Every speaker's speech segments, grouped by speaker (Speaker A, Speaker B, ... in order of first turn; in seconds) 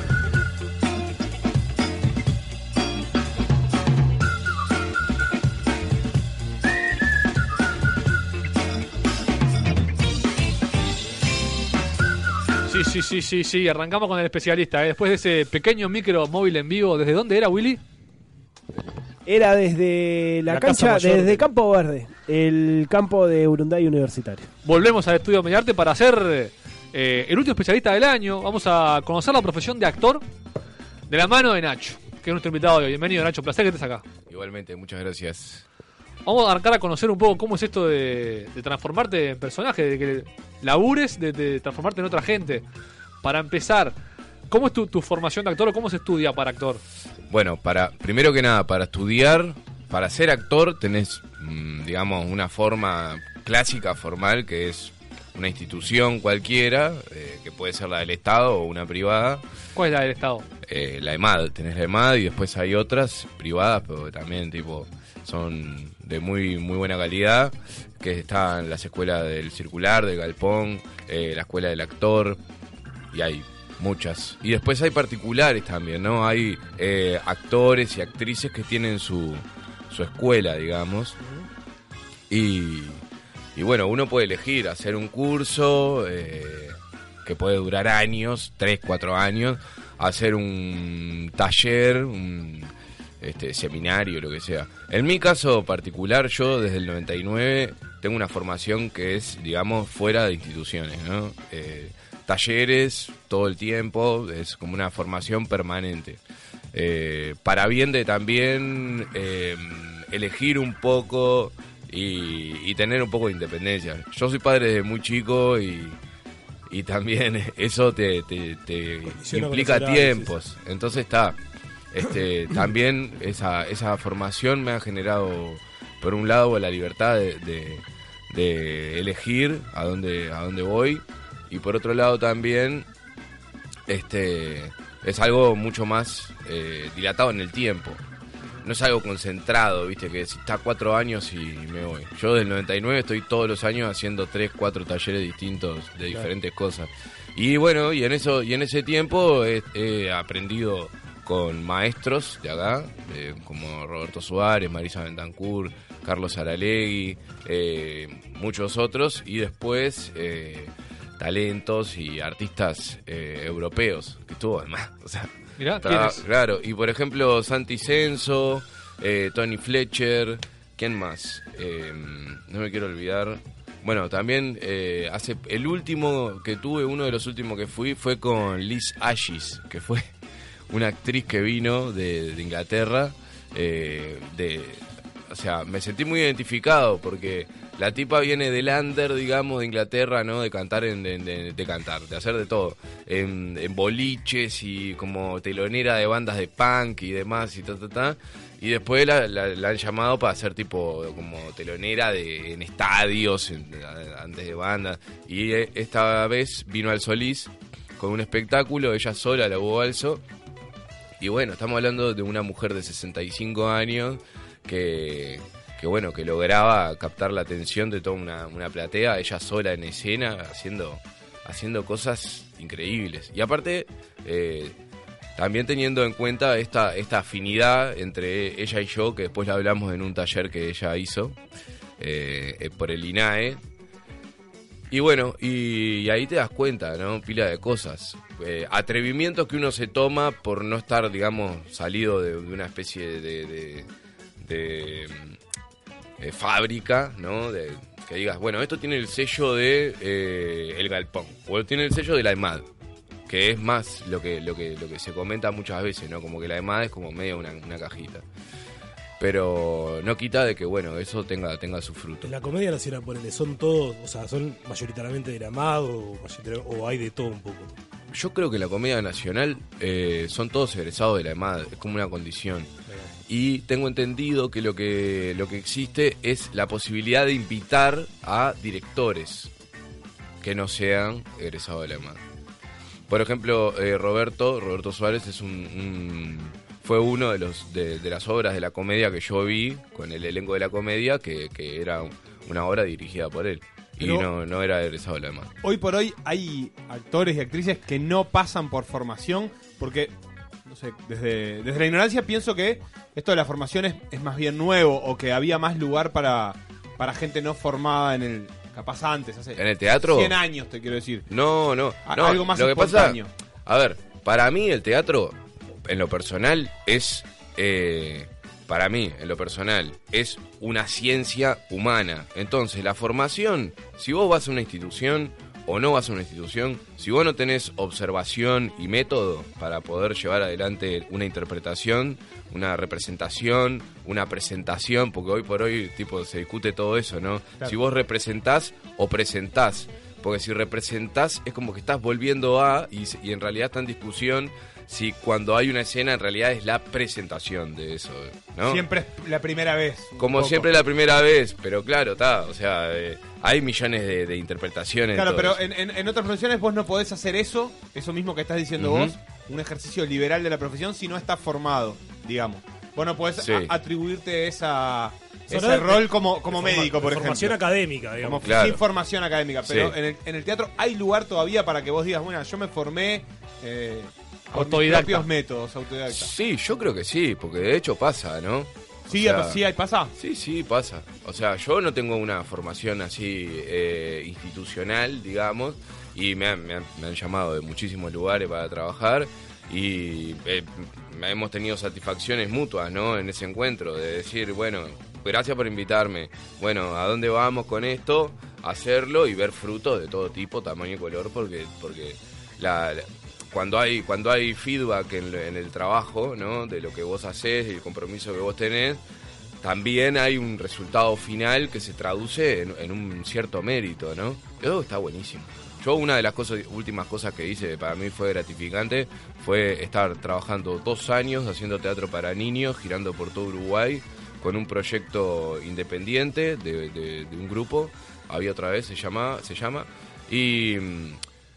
Speaker A: 12.7-17.8, 20.5-21.4, 24.6-30.2, 31.1-34.0, 36.2-42.6, 43.2-44.0, 44.5-46.8, 59.7-60.4, 165.6-166.2, 374.5-375.3
Speaker B: 19.2-24.5
Speaker C: 34.3-35.6, 47.3-59.4, 60.7-72.4, 73.1-81.2, 82.3-83.0, 83.5-106.2, 106.7-116.0, 116.7-121.4, 121.9-132.9, 133.9-138.0, 138.6-180.1, 180.7-210.2, 211.2-224.8, 225.4-231.4, 232.0-233.6, 234.9-243.9, 244.4-245.4, 246.2-252.7, 253.3-258.2, 259.2-262.3, 268.1-272.7, 273.3-279.5, 280.4-282.2, 283.1-295.5, 309.6-310.3, 311.3-348.8, 350.2-355.6, 358.8-359.1, 363.4-363.7, 368.4-368.8, 369.6-369.9, 376.1-379.6, 380.2-409.0, 409.6-431.2
Speaker D: 119.1-120.3, 262.2-267.7, 365.5-368.7
Speaker E: 294.0-294.3, 295.6-300.1, 300.6-311.3, 312.0-313.3, 348.6-350.9, 355.1-367.6, 368.2-376.3, 379.1-380.1